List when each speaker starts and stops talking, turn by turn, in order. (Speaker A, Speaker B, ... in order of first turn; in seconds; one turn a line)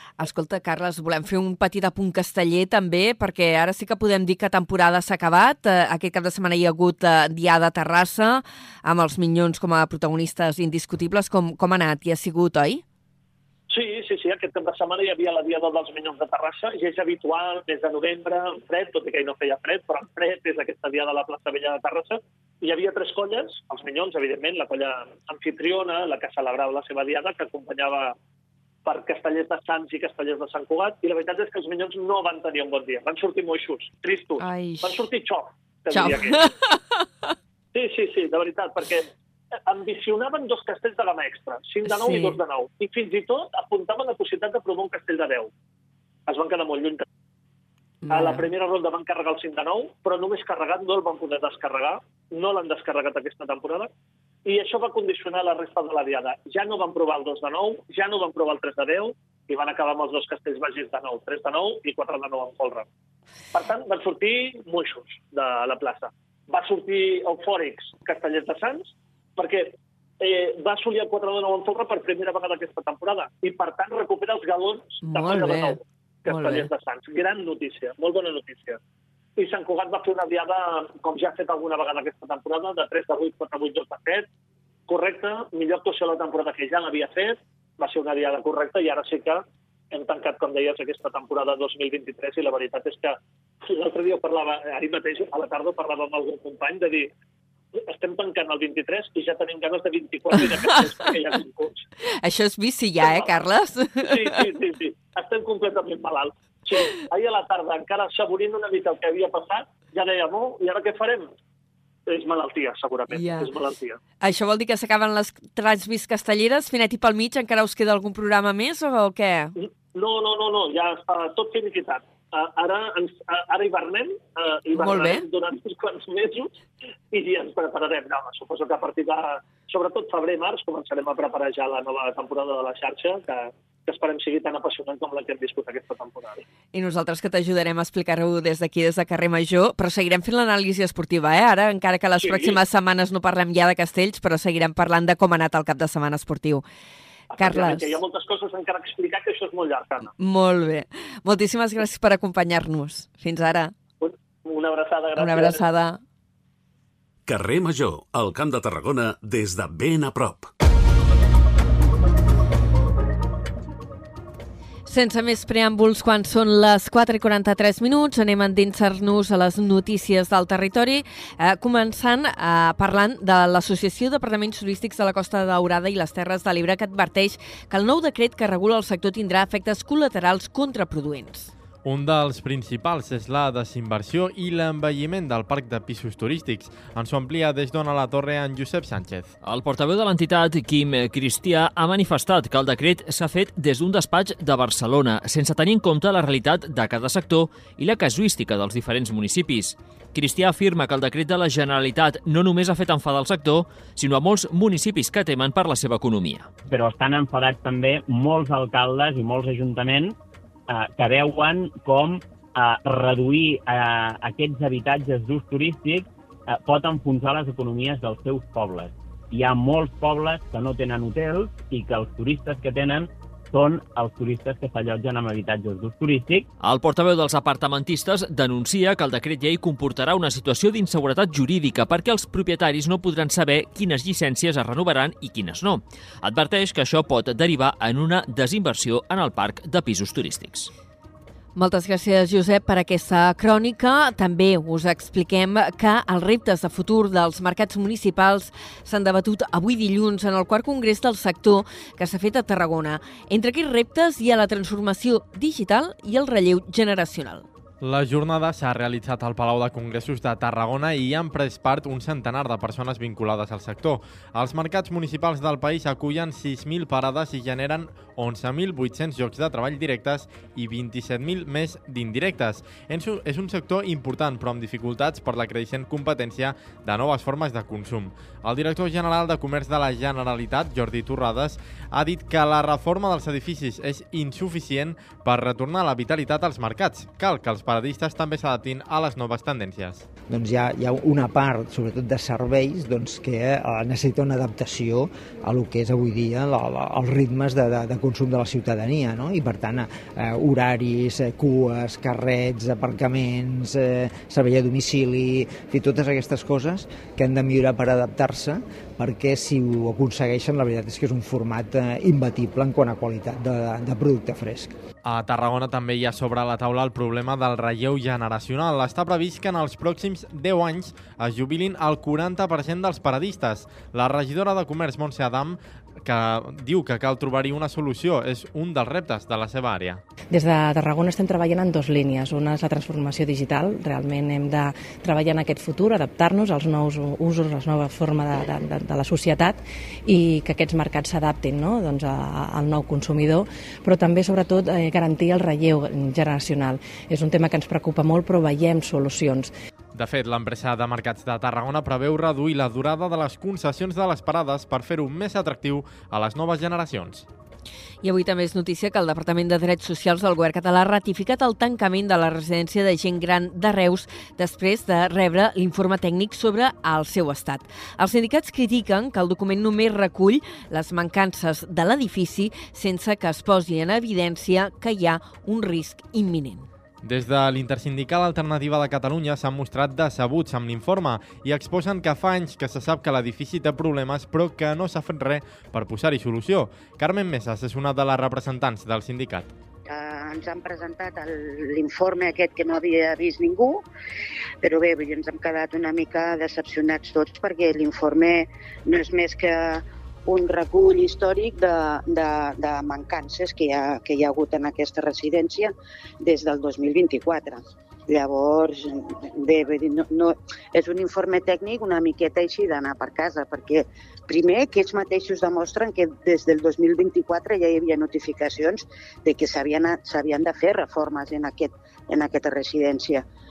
Speaker A: 0.2-12.8
Speaker B: 13.7-28.1
Speaker B: 28.9-36.4
Speaker A: 34.4-35.0
Speaker A: 35.9-36.8
Speaker B: 37.7-39.1
Speaker B: 39.7-45.5
Speaker A: 41.9-42.4
Speaker B: 46.3-47.0
Speaker A: 48.0-48.5
Speaker B: 48.1-53.9
Speaker B: 54.5-62.9
Speaker B: 63.5-78.8
Speaker A: 75.0-76.7
Speaker B: 79.4-84.3
Speaker B: 84.9-97.1
Speaker B: 97.9-101.8
Speaker A: 100.4-101.0
Speaker A: 102.2-104.5
Speaker B: 103.0-103.4
Speaker B: 104.0-111.3
Speaker B: 112.1-114.0
Speaker A: 113.1-113.5
Speaker A: 114.2-119.5
Speaker B: 119.6-126.6
Speaker A: 124.7-125.2
Speaker B: 127.1-136.4
Speaker A: 136.7-146.6
Speaker B: 142.2-142.6
Speaker B: 147.3-150.1
Speaker A: 147.4-147.9
Speaker A: 150.2-153.7
Speaker B: 154.0-155.6
Speaker A: 155.2-156.0
Speaker C: 157.3-160.5
Speaker A: 164.9-181.5
Speaker D: 181.8-189.3
Speaker E: 189.4-206.5
Speaker F: 206.7-210.2
Speaker F: 210.7-226.5
Speaker E: 226.6-240.7
Speaker A: 241.6-257.4
Speaker D: 257.8-290.1
Speaker G: 290.3-314.7
Speaker D: 315.1-330.0
Speaker H: 330.3-349.5
Speaker D: 349.9-357.3
Speaker A: 358.0-376.7
Speaker D: 377.0-389.5
Speaker I: 389.9-393.8
Speaker I: 394.6-423.2